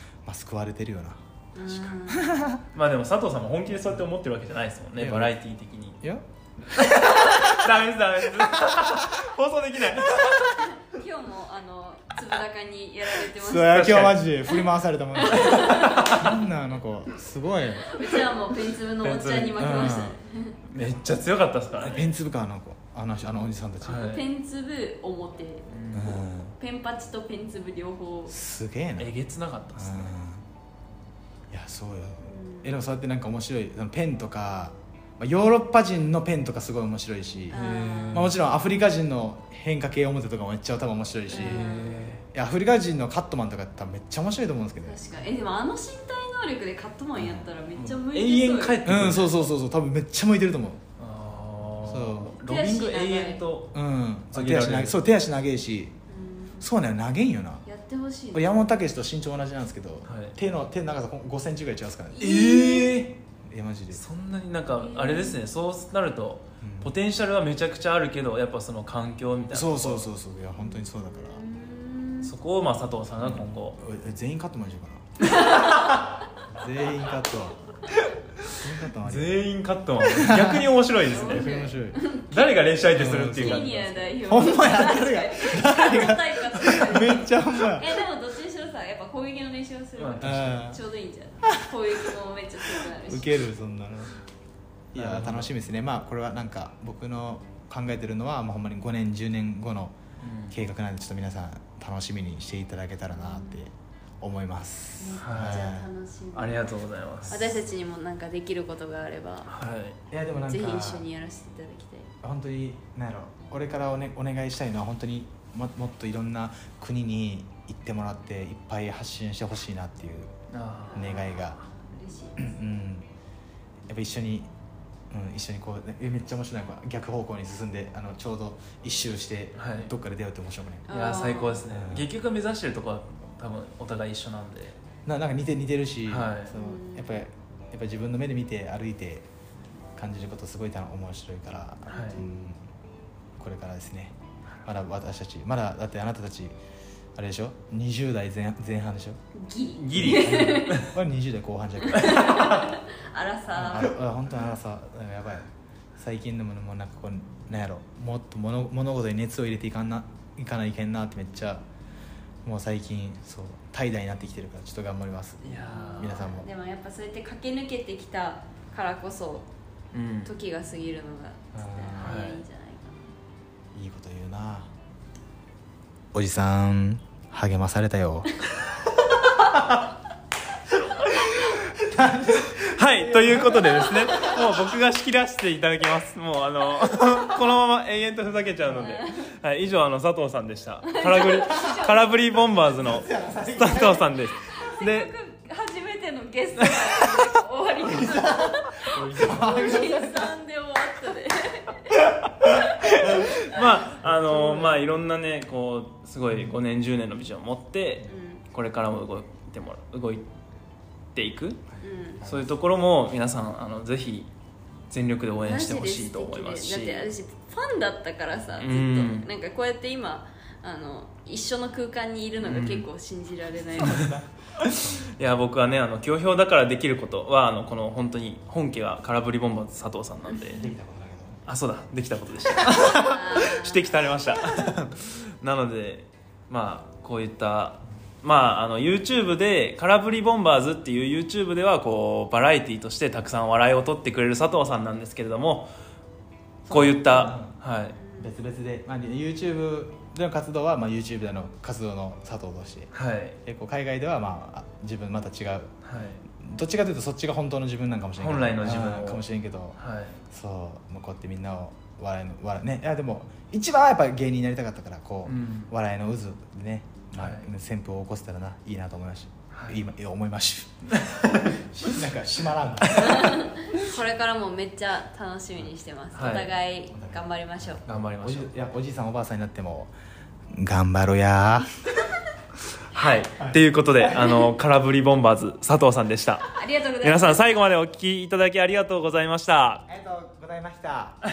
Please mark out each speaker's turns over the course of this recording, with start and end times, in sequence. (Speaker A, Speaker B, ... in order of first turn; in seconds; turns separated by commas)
Speaker A: 0.2-2.6, Speaker B: 1.5-2.5, Speaker C: 2.7-6.0, Speaker A: 5.0-5.3, Speaker A: 6.0-7.4, Speaker C: 6.7-10.6, Speaker A: 8.4-9.2, Speaker B: 10.6-13.8, Speaker A: 13.3-18.1, Speaker C: 13.5-14.2, Speaker B: 15.2-16.2, Speaker C: 15.3-16.4, Speaker B: 17.8-20.6, Speaker C: 19.0-19.9, Speaker A: 19.5-20.2, Speaker C: 20.7-22.0, Speaker A: 21.8-24.1, Speaker C: 23.8-24.3, Speaker B: 23.9-25.6, Speaker C: 25.7-26.2, Speaker A: 25.9-26.5, Speaker B: 26.5-28.4, Speaker A: 28.3-29.1, Speaker C: 29.0-30.1, Speaker A: 29.7-30.4, Speaker A: 31.5-37.6, Speaker B: 32.2-32.8, Speaker C: 37.5-38.4, Speaker B: 37.5-38.3, Speaker A: 38.1-41.7, Speaker C: 41.3-42.2, Speaker B: 41.3-42.1, Speaker A: 42.3-45.0, Speaker B: 44.8-48.9, Speaker A: 47.1-47.5, Speaker C: 47.7-49.4, Speaker A: 48.8-50.8, Speaker C: 51.0-53.8, Speaker A: 51.8-52.4, Speaker B: 52.4-53.4, Speaker A: 53.7-56.0, Speaker C: 54.3-55.0, Speaker B: 56.1-56.7, Speaker A: 56.6-57.6, Speaker B: 57.6-58.6, Speaker A: 58.3-62.3, Speaker C: 60.0-60.4, Speaker B: 62.1-63.0, Speaker C: 62.2-63.2, Speaker A: 63.4-64.0, Speaker C: 63.9-70.1, Speaker B: 64.7-65.4, Speaker A: 66.6-66.9, Speaker A: 69.5-71.4, Speaker B: 70.6-72.3, Speaker C: 72.2-73.8, Speaker A: 73.2-77.9, Speaker C: 75.2-76.0, Speaker B: 75.2-76.1, Speaker C: 78.1-81.5, Speaker A: 78.5-79.4, Speaker A: 80.0-82.0, Speaker B: 81.0-82.5, Speaker C: 82.2-84.2, Speaker A: 82.9-88.0, Speaker B: 83.3-93.4, Speaker C: 90.0-90.6, Speaker A: 90.2-90.8, Speaker A: 92.6-94.1, Speaker A: 94.9-100.0, Speaker C: 94.9-95.5, Speaker C: 100.2-100.6, Speaker A: 100.5-105.9, Speaker B: 103.1-103.6, Speaker B: 105.0-109.5, Speaker C: 105.2-105.7, Speaker C: 106.3-107.5, Speaker A: 107.2-107.7, Speaker C: 109.5-110.0, Speaker A: 110.1-111.0, Speaker B: 110.5-112.1, Speaker A: 112.2-120.3, Speaker C: 120.5-121.3, Speaker B: 120.9-122.5, Speaker A: 120.9-121.6, Speaker A: 122.4-123.1, Speaker A: 123.9-124.5, Speaker A: 125.1-130.9, Speaker C: 129.6-129.9, Speaker B: 130.9-131.7, Speaker C: 130.9-134.8, Speaker A: 131.7-132.1, Speaker A: 135.0-139.3, Speaker C: 136.1-136.5, Speaker B: 136.5-137.2, Speaker A: 139.9-142.6, Speaker C: 141.9-142.2, Speaker B: 141.9-142.3, Speaker A: 143.4-146.5, Speaker A: 147.2-149.2, Speaker B: 149.3-150.9, Speaker C: 149.8-151.0, Speaker A: 149.9-152.2, Speaker B: 151.9-154.0, Speaker C: 151.9-152.7, Speaker A: 153.5-161.6, Speaker A: 162.4-166.5, Speaker C: 165.4-166.2, Speaker B: 165.4-169.5, Speaker C: 169.9-170.3, Speaker B: 170.2-173.1, Speaker A: 171.5-172.2, Speaker C: 172.0-172.4, Speaker A: 173.7-174.7, Speaker A: 176.1-178.3, Speaker A: 181.3-184.4, Speaker C: 182.6-195.1, Speaker B: 188.7-189.3, Speaker B: 190.8-192.1, Speaker A: 192.8-194.2, Speaker B: 194.5-204.8, Speaker C: 196.6-196.9, Speaker A: 198.1-200.2, Speaker C: 199.1-199.5, Speaker C: 202.9-210.3, Speaker B: 208.0-208.4, Speaker C: 211.1-211.6, Speaker A: 211.7-212.5, Speaker B: 211.8-212.3, Speaker C: 212.2-214.3, Speaker C: 214.9-217.1, Speaker B: 215.4-224.1, Speaker C: 218.6-219.3, Speaker C: 222.4-222.9, Speaker A: 223.8-225.1, Speaker C: 224.6-230.6, Speaker B: 230.3-230.7, Speaker A: 230.5-231.4, Speaker C: 231.5-245.7, Speaker B: 232.9-233.8, Speaker A: 246.7-247.6, Speaker C: 246.7-248.0, Speaker B: 247.9-248.3, Speaker A: 248.2-252.9, Speaker C: 252.9-253.4, Speaker A: 253.4-255.7, Speaker C: 255.8-256.2, Speaker A: 256.4-259.8, Speaker C: 258.2-259.2, Speaker C: 259.8-260.2, Speaker A: 260.3-270.9, Speaker C: 265.2-265.7, Speaker C: 267.1-267.5, Speaker C: 269.5-269.8, Speaker C: 270.9-271.5, Speaker A: 271.4-273.8, Speaker B: 272.9-277.8, Speaker C: 276.1-276.6, Speaker A: 276.9-279.9, Speaker C: 277.8-278.5, Speaker A: 280.5-281.7, Speaker C: 282.9-289.8, Speaker B: 286.4-287.6, Speaker A: 289.9-291.2